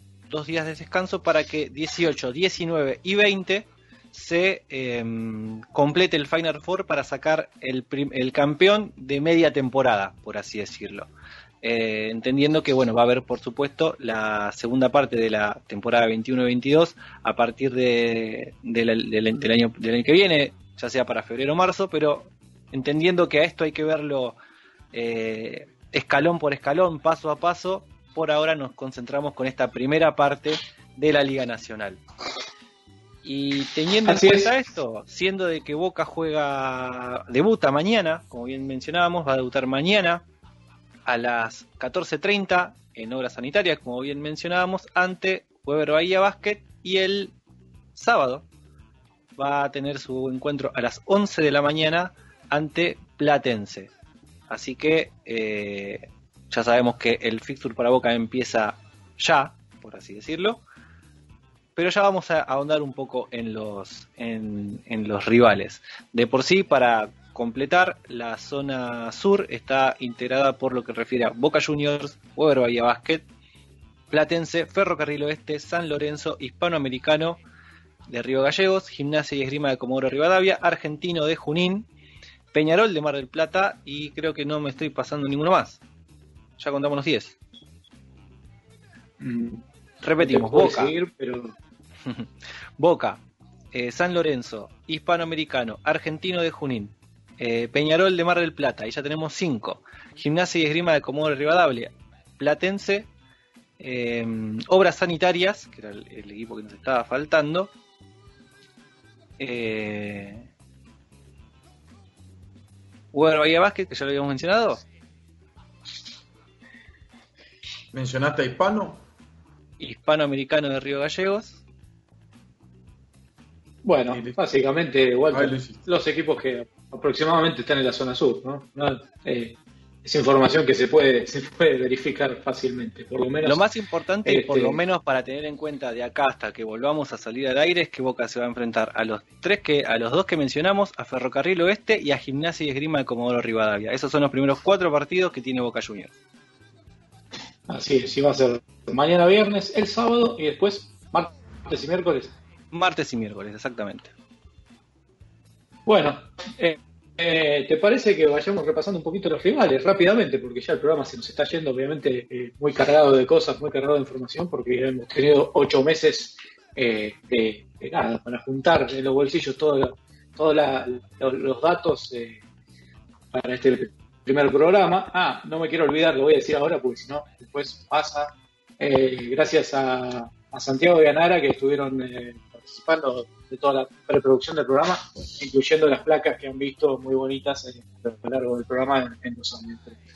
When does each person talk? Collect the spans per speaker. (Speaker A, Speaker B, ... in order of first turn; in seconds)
Speaker A: 0.3-11.1, 11.6-24.4, 24.9-32.0, 33.2-40.2, 41.0-47.3, 47.9-48.4, 49.4-53.9, 54.5-60.6, 61.8-73.2, 74.1-77.4, 78.1-81.9, 82.5-85.8, 86.6-87.3, 90.0-90.9, 92.0-93.2, 93.7-103.1, 103.8-107.7, 109.4-110.5, 113.1-114.8, 119.8-121.6, 133.4-146.1, 152.7-154.1
Speaker B: 34.0-34.5, 89.2-89.6, 90.2-91.5, 123.8-133.6, 134.2-134.8, 147.7-152.3, 155.8-172.4, 173.3-190.0
Speaker C: 117.9-119.0, 124.1-124.4, 125.3-125.9